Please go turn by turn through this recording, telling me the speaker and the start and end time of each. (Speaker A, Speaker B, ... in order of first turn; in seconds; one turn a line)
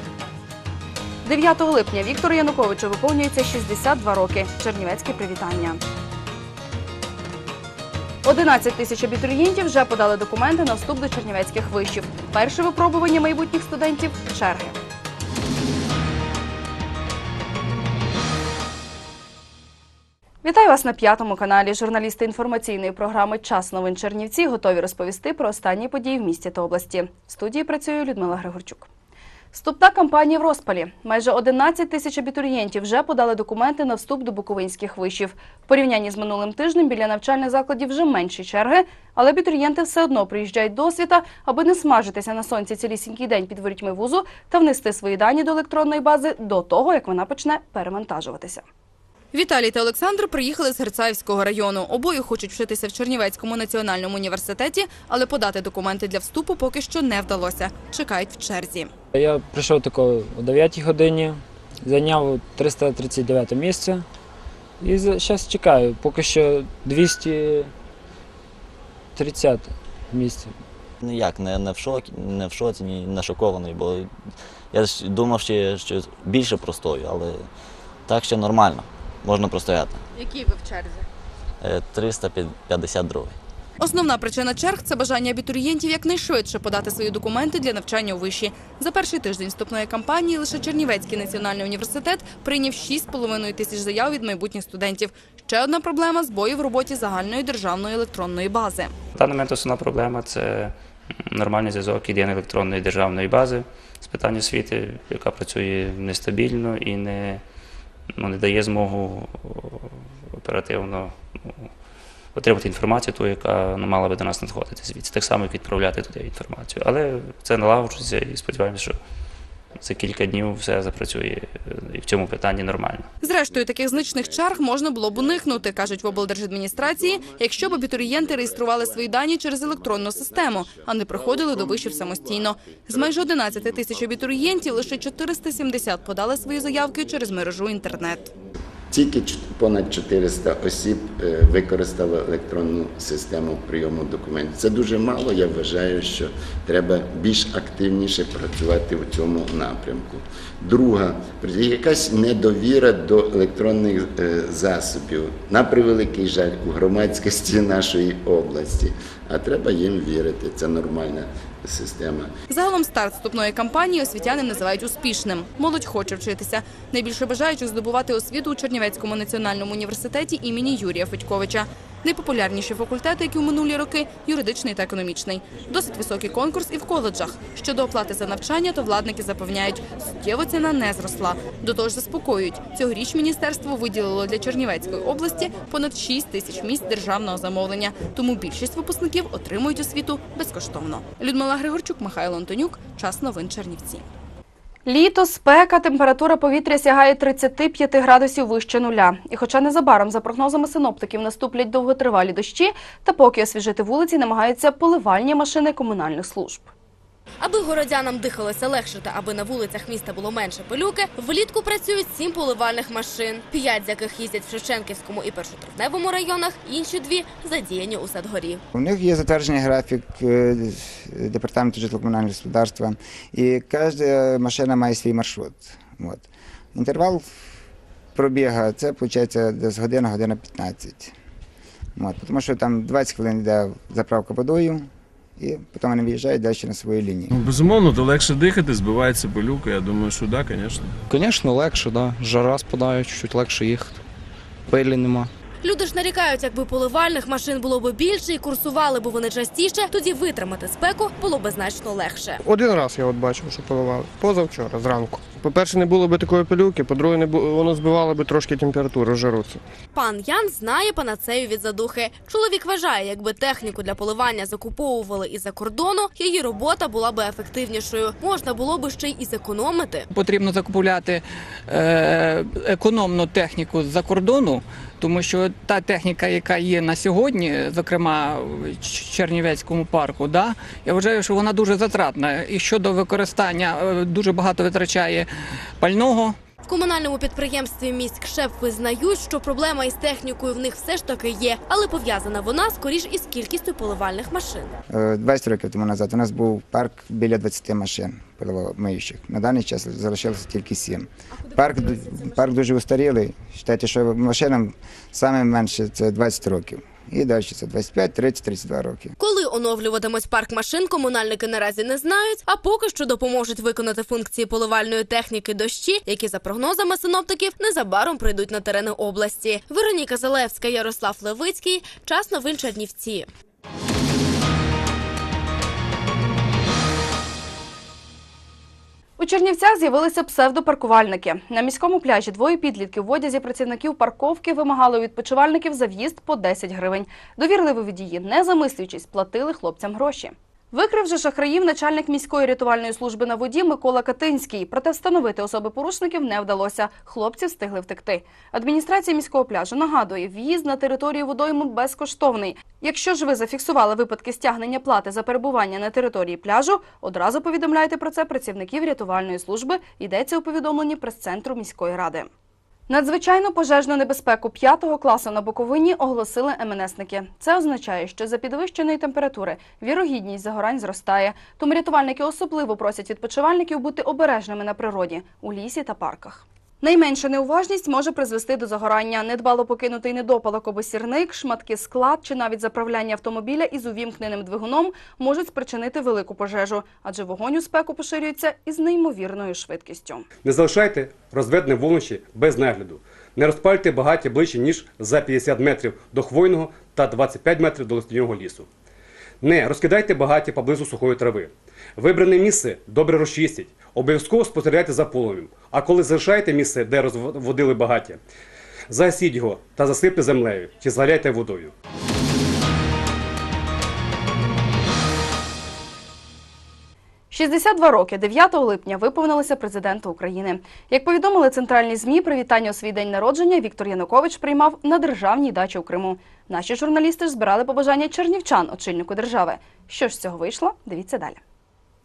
Speaker A: 1.2-5.8
Speaker A: 8.2-14.8
Speaker A: 20.4-28.9
Speaker A: 29.5-48.6
Speaker A: 49.3-58.9
Speaker B: 59.1-64.0
Speaker B: 64.8-67.7
Speaker B: 69.2-70.5
Speaker C: 71.0-74.0
Speaker C: 74.7-77.3
Speaker C: 78.1-79.9
Speaker D: 80.2-81.0
Speaker C: 81.6-83.2
Speaker A: 83.8-98.9
Speaker E: 99.1-100.7
Speaker E: 101.2-107.4
Speaker E: 108.1-111.7
Speaker E: 112.3-119.0
Speaker E: 119.8-123.1
Speaker A: 123.2-138.3
Speaker F: 123.5-135.1
Speaker F: 138.9-162.3
Speaker A: 162.5-194.1
Speaker A: 194.8-206.7
Speaker D: 207.4-218.6
Speaker G: 218.7-227.2
Speaker G: 228.1-231.1
Speaker G: 232.0-237.3
Speaker H: 237.3-240.9
Speaker I: 241.1-243.9
Speaker I: 244.7-245.3
Speaker D: 245.6-252.4
Speaker J: 252.4-259.6
Speaker D: 259.9-270.1
Speaker K: 270.1-285.3
Speaker K: 285.8-286.4
Speaker D: 286.6-294.7
Speaker G: 294.9-309.1
Speaker D: 309.2-323.3
Speaker A: 329.2-362.3
Speaker A: 362.9-390.3
Speaker L: 390.4-398.7
Speaker L: 399.4-408.2
Speaker L: 408.9-411.7
Speaker A: 417.3-431.4